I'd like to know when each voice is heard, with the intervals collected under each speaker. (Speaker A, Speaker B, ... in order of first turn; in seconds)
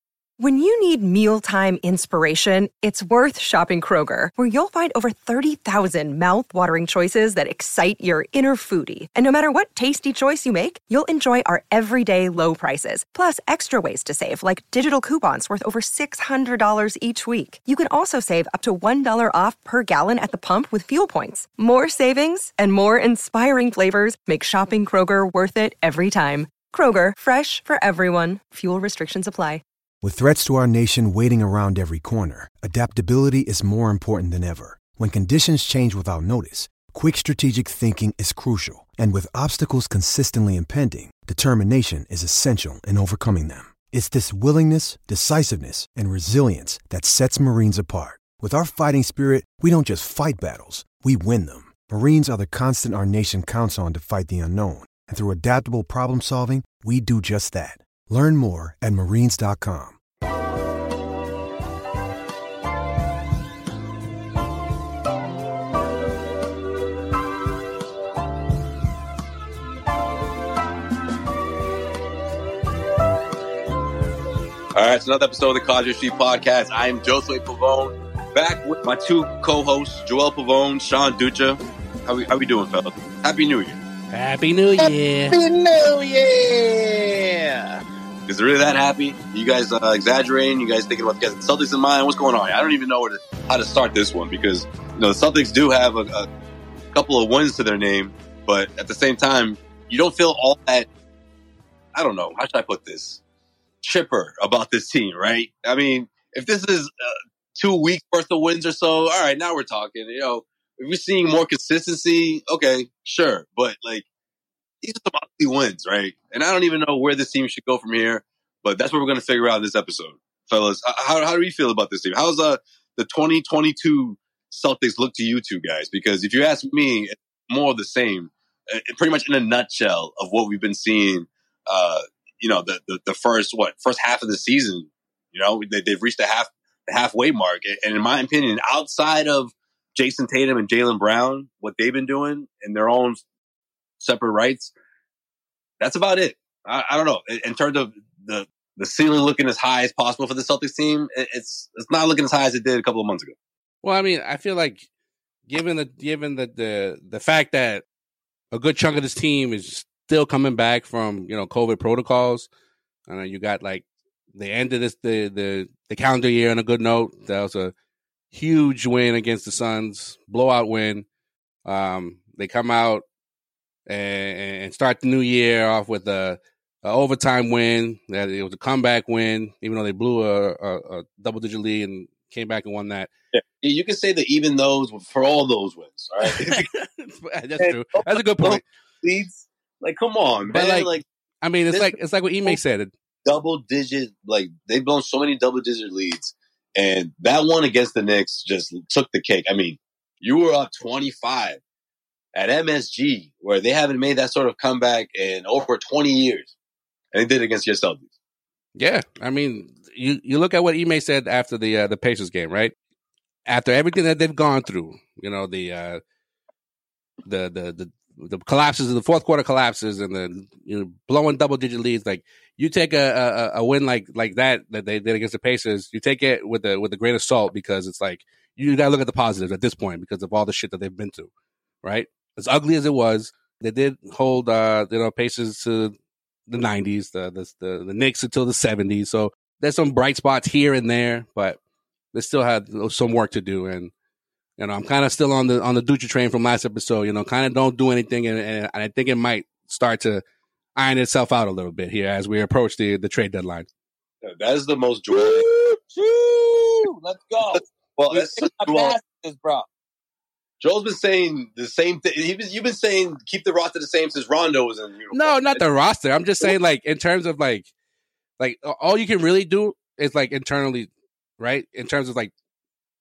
Speaker A: 0.4-29.6
Speaker B: 30.0-60.0
Speaker C: 74.7-83.8, 88.2-96.3, 96.9-100.9, 102.0-103.2, 103.8-114.0, 114.8-143.2, 144.0-144.7, 145.8-153.3, 183.3-186.7, 187.6-191.1, 191.7-192.6, 193.2-201.6, 202.3-206.5, 207.1-208.1, 254.2-255.5, 257.5-259.0, 260.6-265.6
Speaker D: 84.1-85.3, 153.8-154.8, 155.5-157.8, 158.5-162.5, 163.1-167.7, 168.3-171.1, 171.7-173.0, 173.9-183.1, 186.2-188.6, 190.5-192.9, 208.8-212.7, 213.5-216.0, 217.3-231.3, 231.8-235.9, 236.5-241.6, 242.1-243.9, 244.6-250.2, 250.8-253.7, 265.1-267.7, 268.4-272.3
Speaker E: 84.8-87.8, 255.1-259.7